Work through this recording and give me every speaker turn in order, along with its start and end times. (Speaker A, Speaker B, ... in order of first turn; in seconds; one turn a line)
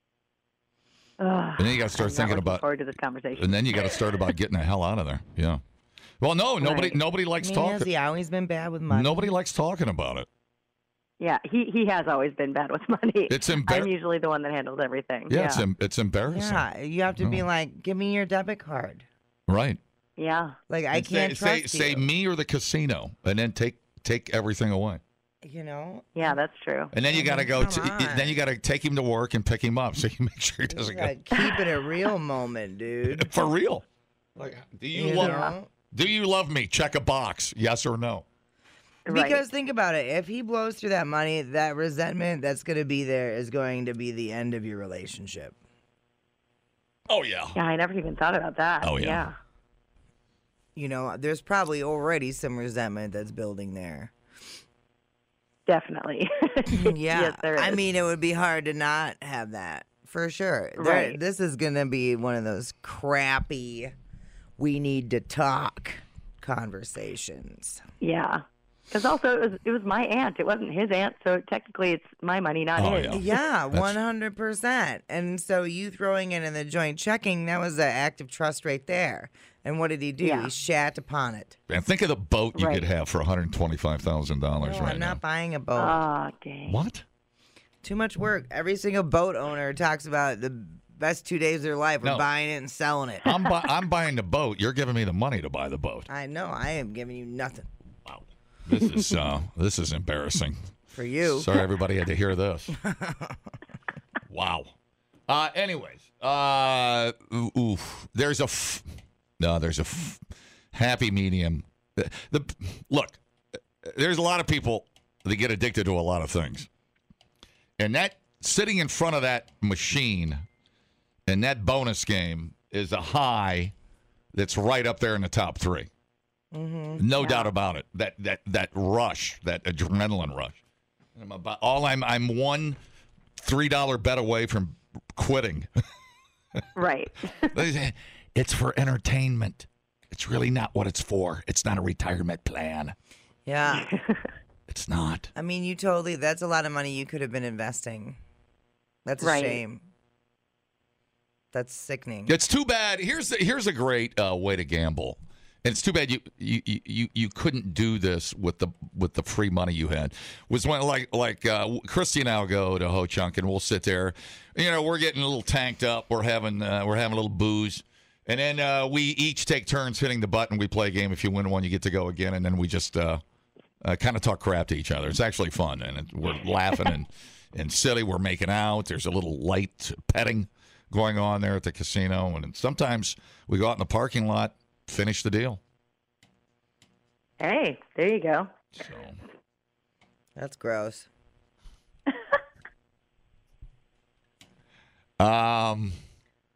Speaker A: 1.2-4.2
Speaker B: 1.6-2.6
Speaker B: 3.4-5.6
Speaker B: 6.2-7.9
Speaker A: 6.6-7.0
Speaker C: 7.4-9.3
Speaker B: 8.9-10.3
Speaker A: 11.2-15.6
Speaker B: 13.3-13.9
Speaker B: 15.3-16.6
Speaker C: 16.3-19.1
Speaker B: 17.2-17.4
Speaker B: 19.5-19.8
Speaker A: 20.2-20.6
Speaker C: 20.7-22.1
Speaker B: 20.9-25.0
Speaker C: 25.4-26.4
Speaker A: 26.1-26.9
Speaker B: 26.9-31.1
Speaker C: 27.1-28.4
Speaker C: 30.7-33.3
Speaker B: 33.1-33.8
Speaker B: 34.4-38.2
Speaker C: 34.9-35.7
Speaker A: 35.1-35.5
Speaker A: 39.1-39.4
Speaker C: 39.1-45.5
Speaker B: 47.1-47.6
Speaker A: 47.5-49.4
Speaker B: 48.8-49.3
Speaker C: 50.8-54.1
Speaker A: 55.7-57.8
Speaker C: 56.7-63.9
Speaker A: 60.8-61.2
Speaker C: 64.6-67.8
Speaker A: 68.0-73.4
Speaker B: 72.8-73.2
Speaker C: 73.1-81.6
Speaker A: 80.2-80.5
Speaker B: 81.7-85.2
Speaker A: 82.5-82.8
Speaker C: 84.6-86.0
Speaker A: 85.8-86.8
Speaker B: 86.7-87.0
Speaker C: 87.8-93.3
Speaker B: 93.2-96.1
Speaker C: 96.1-97.7
Speaker B: 98.1-100.6
Speaker C: 100.9-101.5
Speaker B: 101.2-102.8
Speaker C: 102.8-103.4
Speaker B: 104.3-104.8
Speaker B: 105.3-108.8
Speaker B: 109.4-110.2
Speaker B: 110.7-113.2
Speaker B: 113.8-116.7
Speaker B: 117.8-120.4
Speaker B: 121.3-123.7
Speaker B: 124.3-125.9
Speaker C: 126.5-127.0
Speaker B: 127.0-130.6
Speaker A: 127.2-127.5
Speaker B: 131.2-132.8
Speaker B: 133.4-135.7
Speaker A: 136.8-137.6
Speaker B: 137.5-142.9
Speaker C: 143.5-143.9
Speaker A: 143.7-144.3
Speaker B: 144.7-145.3
Speaker C: 145.3-148.2
Speaker C: 149.1-149.8
Speaker A: 149.2-149.6
Speaker C: 151.5-152.3
Speaker B: 152.3-173.2
Speaker B: 173.8-185.6
Speaker A: 187.4-188.5
Speaker B: 188.8-189.2
Speaker C: 190.4-191.1
Speaker B: 195.2-196.0